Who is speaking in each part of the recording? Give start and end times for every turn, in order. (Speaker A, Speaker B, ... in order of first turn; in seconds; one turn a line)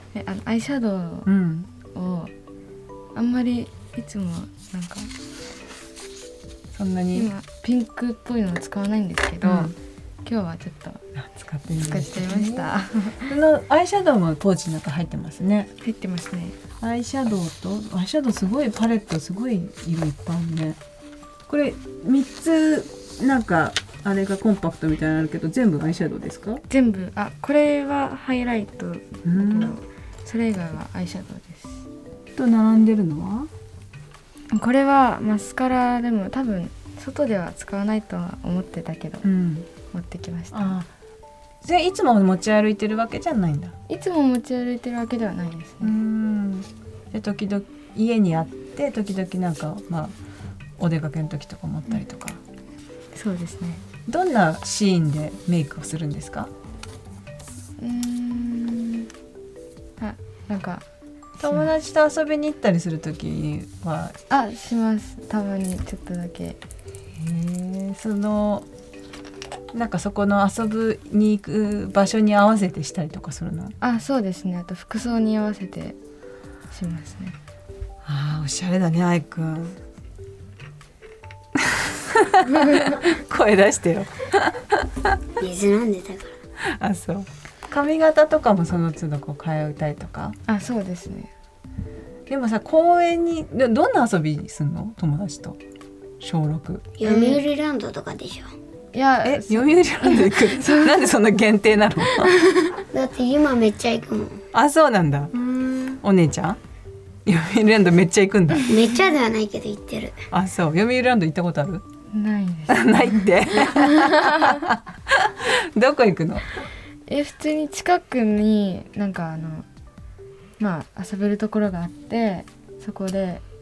Speaker A: 0.1-1.3
Speaker B: 1.2-1.7
Speaker A: 1.9-2.3
Speaker A: 3.1-5.1
Speaker B: 6.7-7.3
Speaker A: 7.1-9.7
Speaker B: 9.4-9.7
Speaker A: 10.2-11.0
Speaker B: 11.2-12.7
Speaker A: 11.8-13.3
Speaker B: 13.2-15.7
Speaker A: 15.8-16.6
Speaker B: 16.8-20.8
Speaker B: 21.5-26.6
Speaker A: 26.7-31.8
Speaker B: 29.2-29.8
Speaker B: 32.4-33.5
Speaker A: 34.5-39.2
Speaker B: 39.2-39.7
Speaker A: 39.9-40.8
Speaker B: 40.5-40.9
Speaker B: 41.6-43.8
Speaker A: 43.9-46.0
Speaker B: 45.8-50.1
Speaker B: 50.8-52.4
Speaker A: 53.1-53.8
Speaker B: 54.0-56.5
Speaker A: 57.8-59.1
Speaker A: 60.0-60.8
Speaker A: 61.4-61.7
Speaker B: 61.4-64.2
Speaker A: 64.3-66.6
Speaker B: 67.1-68.7
Speaker B: 69.7-73.7
Speaker A: 73.8-76.0
Speaker A: 76.7-77.3
Speaker B: 78.0-79.8
Speaker B: 81.5-85.2
Speaker A: 82.6-82.9
Speaker C: 85.4-86.3
Speaker B: 86.8-90.4
Speaker A: 90.5-91.3
Speaker B: 92.3-95.6
Speaker B: 96.2-96.9
Speaker C: 97.0-98.5
Speaker A: 97.0-97.4
Speaker A: 98.9-101.0
Speaker B: 99.2-102.3
Speaker C: 102.9-104.4
Speaker B: 104.5-105.3
Speaker A: 105.5-105.8
Speaker B: 106.0-106.6
Speaker B: 107.2-108.7
Speaker C: 108.7-110.1
Speaker B: 110.3-111.8
Speaker A: 112.1-114.6
Speaker B: 112.7-116.5
Speaker A: 117.1-119.7
Speaker A: 120.6-123.4